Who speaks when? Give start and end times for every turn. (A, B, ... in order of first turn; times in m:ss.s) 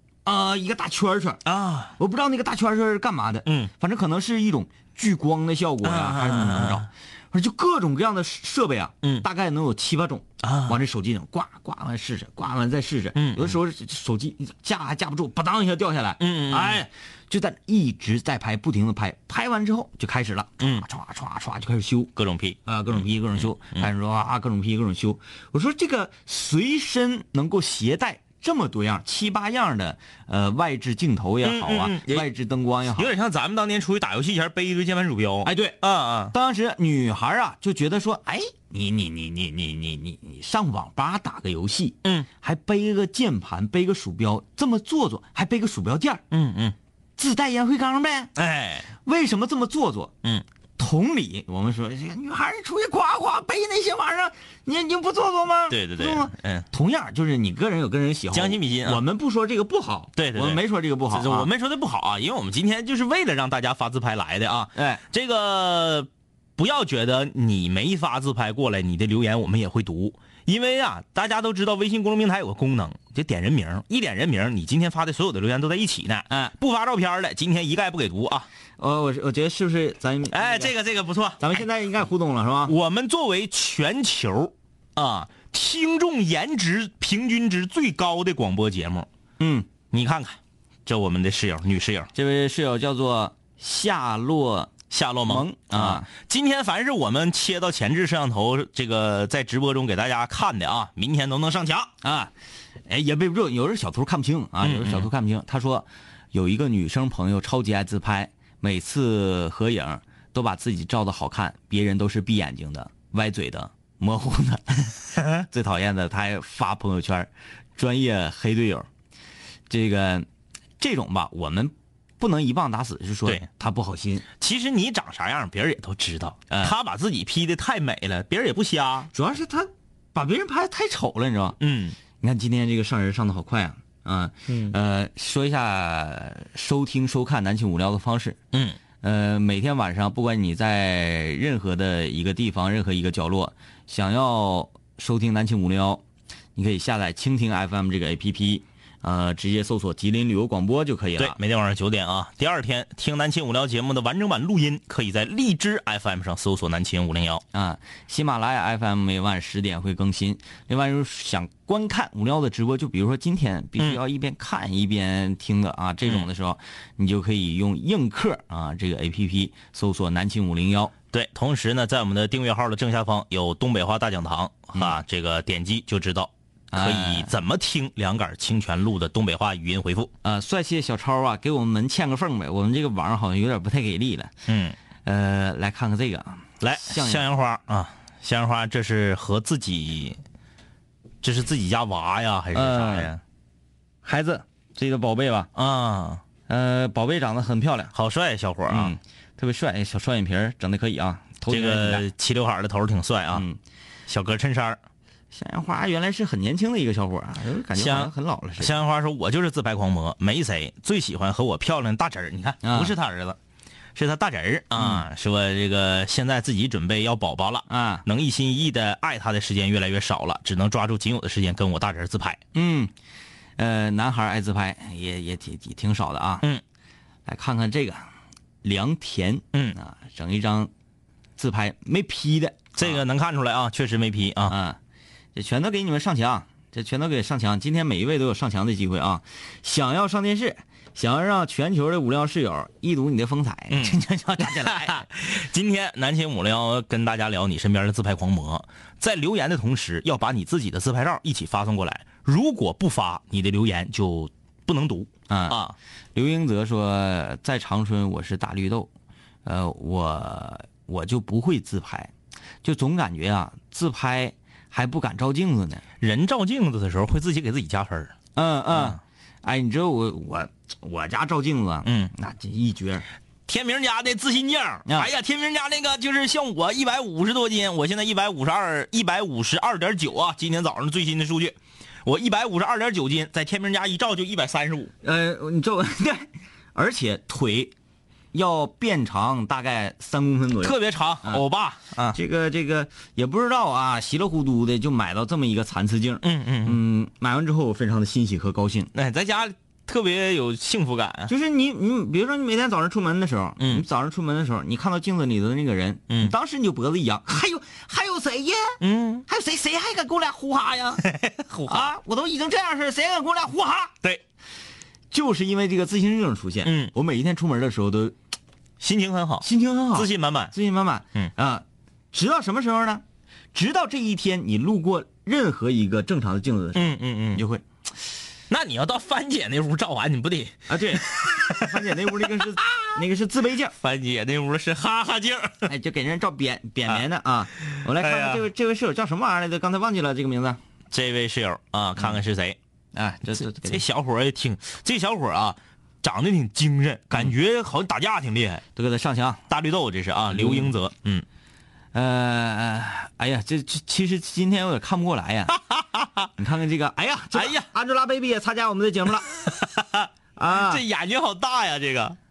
0:00.2-0:01.4 A
0:01.4-0:02.0 B
0:02.0-0:22.1 A
0:03.4-0:03.7 B
0:05.8-0:06.9 B
0:10.4-0:10.8 B
0:13.1-0:13.6 B
0:16.2-0:16.8 B
0:20.6-0:20.8 B
0:22.2-0:23.9 B
0:22.6-0:33.1 A
0:31.4-0:32.3 B
0:32.9-0:36.3 B
0:35.4-0:35.8 A
0:36.3-0:46.2 A
0:46.3-0:46.8 B
0:47.2-0:48.3 A
0:48.4-0:48.9 B
0:49.0-0:50.1 A
0:50.8-1:01.5 A
0:55.7-0:56.7 B
0:58.3-0:59.0 B
1:00.2-1:18.5 B
1:04.7-1:05.0 A
1:18.8-1:20.7 A
1:20.3-1:21.6 B
1:21.4-1:22.7 A
1:22.6-1:29.1 B
1:29.4-1:29.7 A
1:29.9-1:32.1 B
1:32.1-1:34.7 A
1:34.9-1:41.9 B
1:35.2-1:36.1 A
1:42.0-1:42.3 A
1:42.9-1:58.9 A
1:44.6-1:45.1 B
1:59.7-2:00.3 A
2:00.8-2:04.2 A
2:04.4-2:09.1 B
2:06.5-2:06.8 A
2:09.1-2:11.6 A
2:11.6-2:12.0 B
2:12.2-2:18.4 A
2:14.5-2:14.7 B
2:18.5-2:18.8 B
2:19.0-2:26.0 A
2:26.6-2:31.4 A
2:31.2-2:37.4 B
2:37.5-2:50.9 A
2:51.1-3:00.1 B
2:56.7-2:57.3 A
3:00.2-3:04.3 A
3:04.5-3:04.8 B
3:05.0-3:07.3 A
3:06.6-3:10.2 B
3:11.2-3:13.2 B
3:12.5-3:13.1 A
3:14.0-3:15.5 A
3:15.5-3:16.2 B
3:16.5-3:17.9 A
3:17.9-3:19.0 B
3:18.7-3:22.0 A
3:21.5-3:23.4 B
3:23.3-3:23.6 A
3:24.1-3:24.8 B
3:25.3-3:28.7 A
3:27.8-3:33.4 B
3:32.6-3:32.9 A
3:33.9-3:42.4 B
3:34.8-3:35.0 A
3:37.7-3:38.0 A
3:42.5-3:42.9 A
3:43.6-3:46.5 A
3:47.2-3:48.0 A
3:48.6-3:50.7 A
3:51.4-3:53.0 A
3:52.8-3:54.6 B
3:54.4-3:54.8 A
3:55.3-4:05.1 A
4:03.7-4:15.7 B
4:15.3-4:15.6 A
4:16.1-4:18.9 A
4:19.4-4:22.1 A
4:22.6-4:25.8 A
4:26.0-4:28.1 B
4:28.4-4:33.0 A
4:28.7-4:29.0 B
4:31.8-4:32.1 B
4:33.5-4:44.9 B
4:45.0-4:47.7 A
4:48.3-4:51.4 A
4:50.6-4:52.2 B
4:52.1-4:58.9 A
4:56.2-4:56.8 B
4:58.9-5:01.3 B
5:01.3-5:11.1 A
5:08.8-5:09.2 B
5:11.0-5:11.9 B
5:11.7-5:13.9 A
5:15.1-5:18.2 A
5:16.6-5:16.9 B
5:18.8-5:20.5 B
5:19.4-5:23.0 A
5:23.5-5:27.6 A
5:26.7-5:27.4 B
5:28.5-5:32.8 B
5:30.7-5:33.7 A
5:33.8-5:35.7 B
5:35.6-5:40.6 A
5:37.6-5:38.5 B
5:40.9-5:42.6 B
5:42.9-5:43.8 A
5:43.3-5:48.6 B
5:48.7-5:49.4 A
5:49.5-5:51.2 B
5:50.3-5:50.7 A
5:51.9-5:55.6 A
5:55.6-5:56.3 B
5:56.4-5:59.3 A
5:57.3-5:57.7 B
5:59.3-6:02.2 B
6:00.4-6:00.8 A